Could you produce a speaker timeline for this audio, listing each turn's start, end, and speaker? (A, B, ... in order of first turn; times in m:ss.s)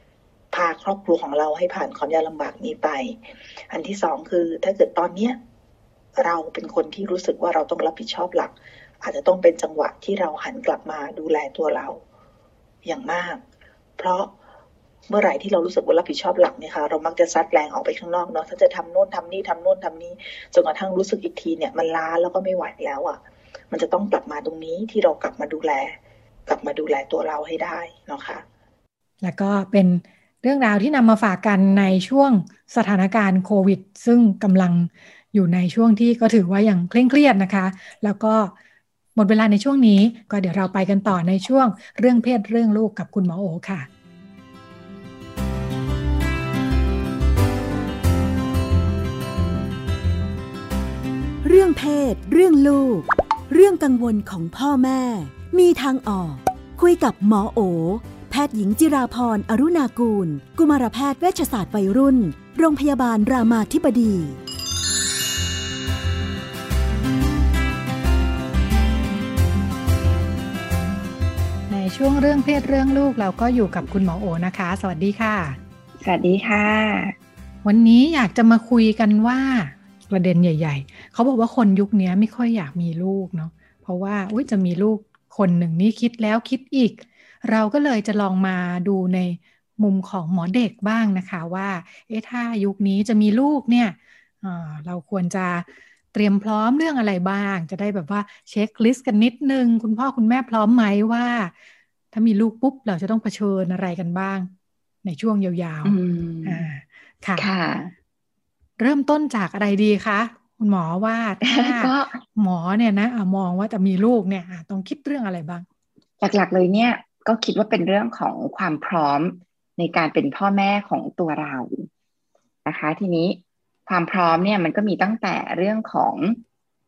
0:00.5-0:03.2 A
0:03.7-0:05.4 A
0:06.2-0:12.0 A
0:12.8-0:13.4 A
0:14.0-0:14.3 A
0:15.1-0:23.2 A
0:23.7-0:26.0 A
0:26.5-0:28.4 A
0:29.2-0:38.5 B
0:39.2-0:43.9 B
0:51.4-1:04.4 C
1:11.7-1:15.6 B
1:16.0-1:17.2 D
1:17.6-1:41.5 B
1:42.1-1:44.5 B
1:45.0-1:47.5 B
1:45.8-1:46.7 D
1:47.4-1:47.9 D
1:48.8-1:55.6 B
1:51.4-1:52.2 D
1:56.2-2:01.9 D
2:02.6-2:06.4 D